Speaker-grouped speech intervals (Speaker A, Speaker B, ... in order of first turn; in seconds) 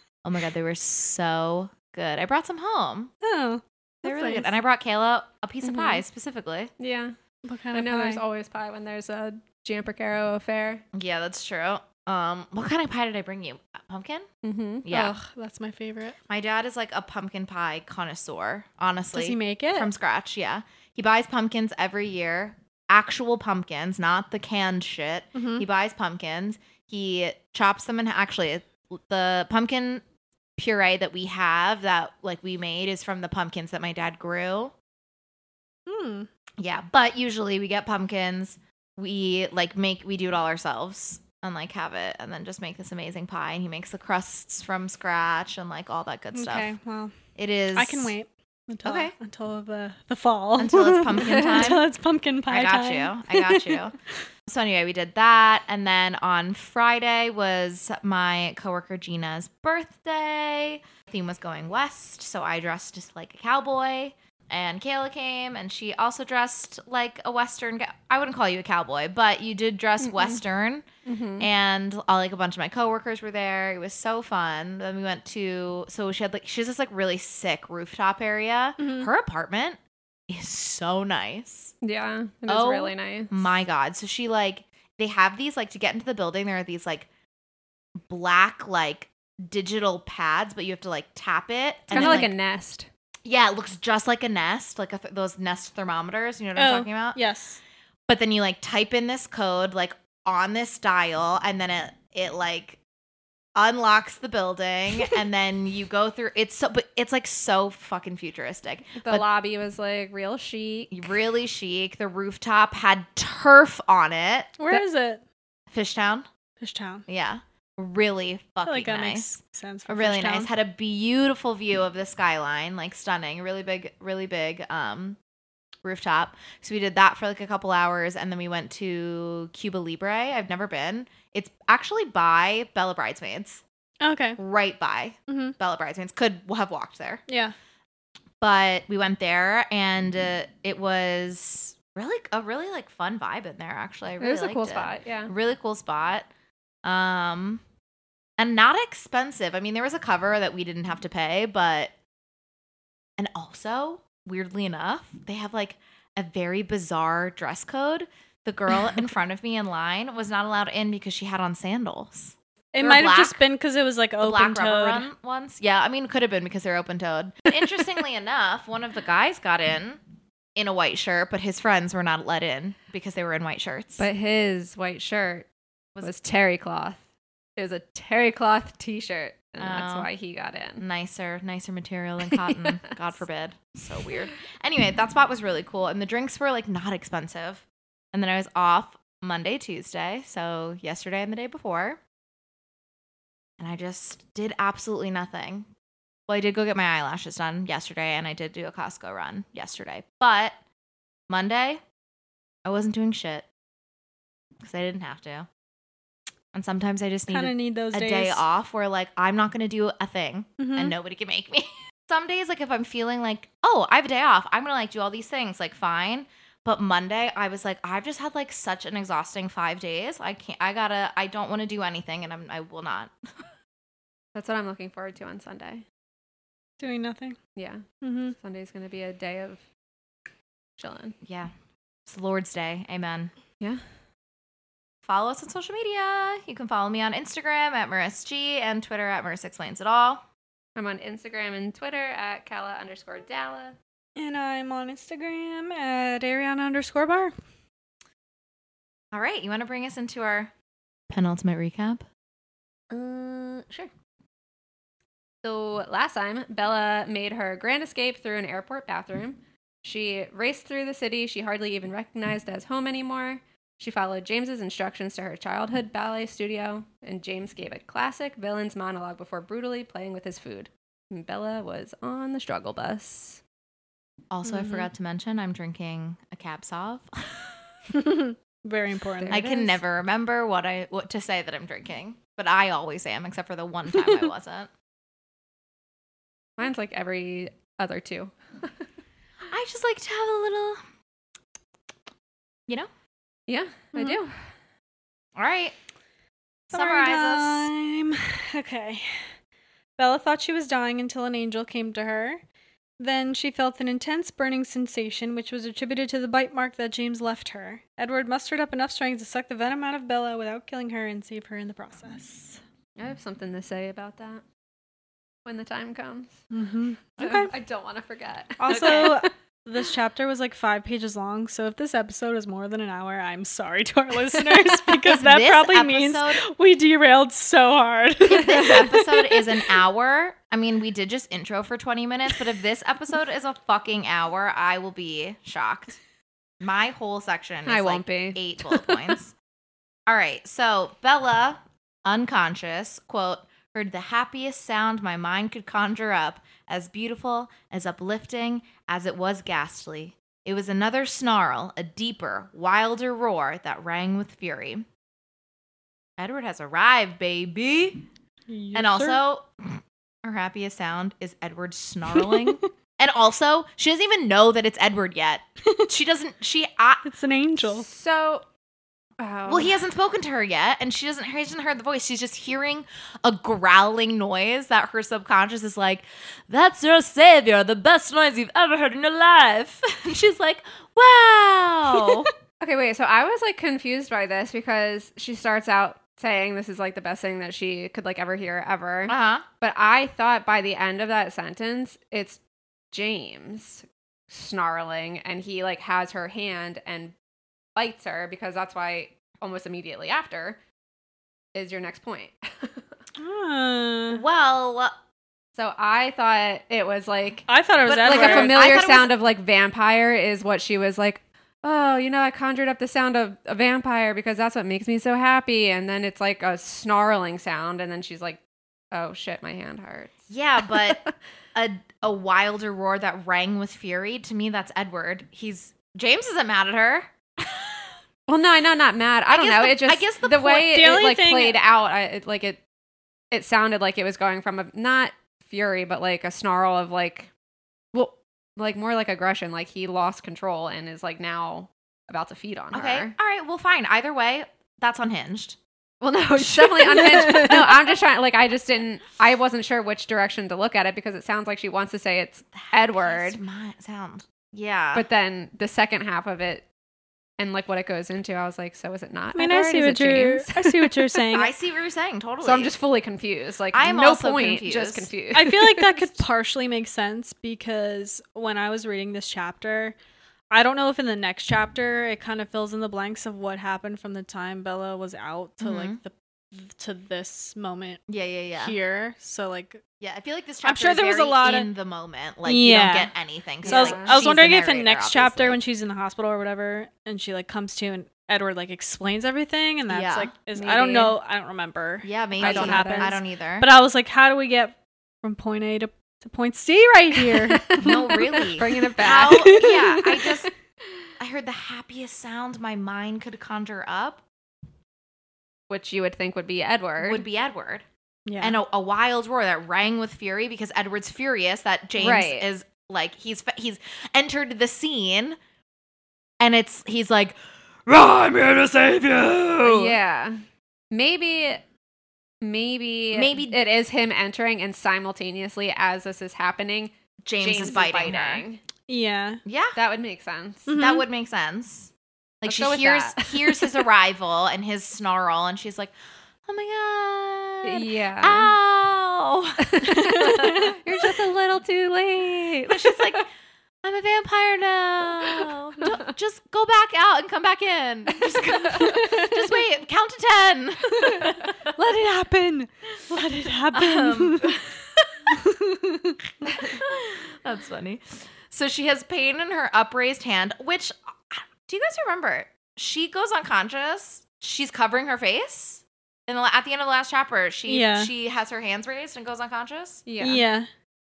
Speaker A: 0.2-3.1, 4.0-6.7, 10.9-14.3, 14.9-15.1, 16.3-30.0, 30.6-34.7, 36.6-46.7, 47.4-48.1, 48.8-49.1, 50.6-51.9, 52.5-54.0, 54.5-70.8, 71.4-81.8, 82.5-87.1, 88.1-92.3, 93.2-97.2, 98.1-102.8, 103.5-109.2, 110.9-114.8, 115.7-116.3, 117.1-119.3, 119.9-125.2, 125.8-133.6, 134.4-137.2, 138.4-146.3, 146.8-147.6, 148.4-151.9, 153.2-163.4, 164.2-170.0, 170.6-174.0, 179.6-180.1, 180.8-192.0, 193.6-195.7, 196.3-200.6, 201.3-201.8, 202.7-203.5, 204.6-205.5, 206.5-223.1, 231.2-231.5, 232.1-233.3, 235.0-240.2, 249.1-250.5, 251.1-252.0, 274.3-277.5, 279.3-284.7, 289.5-290.8, 295.4-295.8, 296.7-297.7, 318.7-319.2, 324.8-326.4, 328.2-336.0, 336.6-339.3, 340.1-354.8, 356.2-358.0, 358.7-367.0, 369.5-382.3, 389.1-389.4, 404.1-404.9, 407.8-409.1, 420.3-421.0, 421.5-427.8, 429.3-430.8, 442.7-445.6, 446.6-447.7, 452.5-455.1, 461.3-462.7, 463.7-465.1, 475.6-476.0, 478.1-478.8, 480.0-485.6, 489.9-490.3, 492.0-493.7, 497.8-500.5, 501.2-504.2, 507.0-507.8, 508.4-515.4, 516.4-520.0, 523.1-523.6, 527.2-528.5, 529.5-529.8, 530.8-531.9, 532.4-535.9, 536.5-539.7, 542.7-543.3, 543.8-551.7, 553.7-555.3, 556.5-570.0
Speaker B: 3.2-4.5, 7.5-8.2, 14.9-16.2, 19.1-19.9, 25.4-25.6, 35.9-36.3, 46.3-47.1, 47.7-53.9, 78.8-79.1, 91.9-92.3, 96.5-97.6, 114.6-115.2, 116.6-117.0, 118.6-120.5, 134.0-134.4, 135.3-135.5, 137.3-137.5, 162.7-165.1, 207.3-208.4, 210.6-210.9, 226.8-227.4, 228.0-228.3, 244.2-247.3, 274.5-274.9, 277.9-279.8, 296.7-299.2, 300.0-302.4, 303.0-312.6, 316.5-317.5, 318.6-329.7, 358.5-359.2, 367.0-367.9, 382.0-382.3, 403.2-404.2, 407.5-408.6, 430.6-431.6, 459.3-461.5, 465.3-470.0, 470.5-478.0, 478.5-479.8, 480.6-481.7, 482.5-498.5, 499.2-500.3, 508.2-508.6, 528.9-529.4, 530.7-531.0, 540.3-540.7, 549.0-549.2, 551.8-554.6, 555.3-556.2, 567.7-568.1, 570.2-570.7
Speaker C: 5.6-6.0, 6.8-7.1, 7.7-10.8, 14.4-14.9, 70.0-70.4, 71.0-71.5, 81.8-83.5, 91.9-92.9, 109.0-111.1, 144.2-145.3, 174.0-175.5, 176.0-177.0, 177.6-180.8, 182.3-182.9, 224.3-225.8, 227.6-229.6, 230.8-231.2, 240.8-243.8, 252.9-253.9, 255.4-273.4, 279.2-279.5, 286.6-288.8, 293.5-294.5, 313.0-314.4, 315.5-316.4, 317.2-319.3, 337.7-339.1, 367.6-368.4, 369.2-369.7, 382.6-392.4, 392.9-397.1, 397.8-400.6, 401.5-402.9, 405.6-407.5, 408.0-418.4, 418.9-421.1, 428.3-432.6, 433.3-437.3, 437.9-443.1, 446.0-453.4, 454.9-456.7, 457.4-460.9, 462.4-466.2, 483.6-484.2, 490.5-491.2, 492.4-493.1, 497.5-497.9, 498.6-499.6, 505.7-507.2, 512.0-512.5, 519.6-521.6, 522.4-528.6, 529.8-530.7, 532.5-533.8, 537.6-538.5, 539.6-543.2, 548.5-549.2, 570.0-570.5